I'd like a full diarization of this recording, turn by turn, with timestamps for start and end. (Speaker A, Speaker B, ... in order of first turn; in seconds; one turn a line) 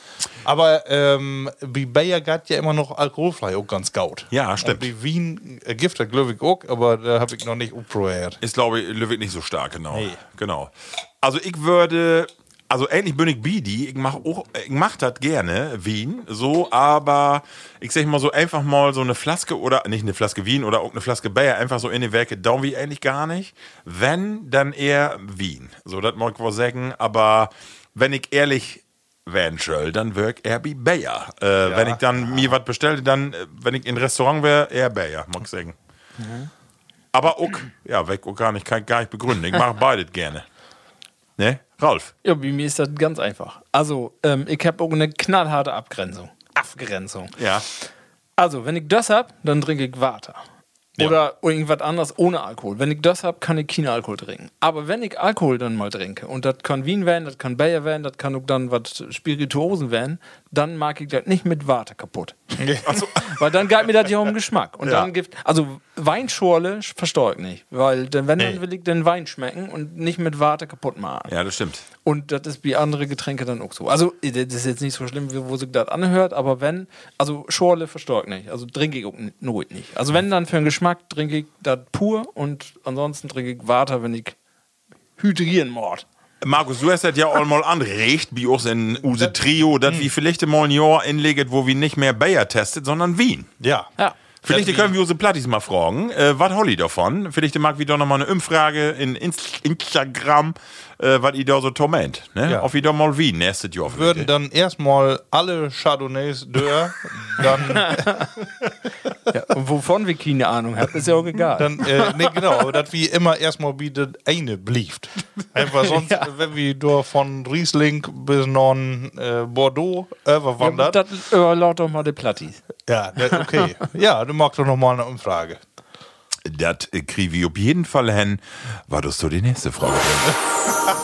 Speaker A: 0.4-8.4
Speaker B: 4.3-4.9
Speaker B: 8.4-35.7
Speaker A: 9.9-10.2
Speaker A: 31.6-32.5
Speaker C: 36.2-36.5
Speaker B: 37.1-40.4
Speaker B: 41.4-42.1
Speaker C: 42.2-47.8
Speaker B: 47.4-47.6
Speaker C: 48.4-50.4
Speaker C: 51.0-62.5
Speaker A: 62.6-63.0
Speaker B: 62.8-63.3
Speaker C: 63.1-71.3
Speaker B: 64.8-65.1
Speaker B: 71.3-71.8
Speaker C: 72.0-84.3
Speaker C: 85.2-86.0
Speaker B: 86.4-93.5
Speaker A: 89.8-90.1
Speaker A: 93.6-93.9
Speaker B: 94.4-104.3
Speaker A: 94.5-94.9
Speaker A: 103.9-108.3
Speaker C: 107.7-108.3
Speaker C: 109.3-112.3
Speaker A: 111.5-121.0
Speaker C: 115.8-116.3
Speaker C: 120.6-122.7
Speaker A: 122.9-125.6
Speaker B: 126.4-130.4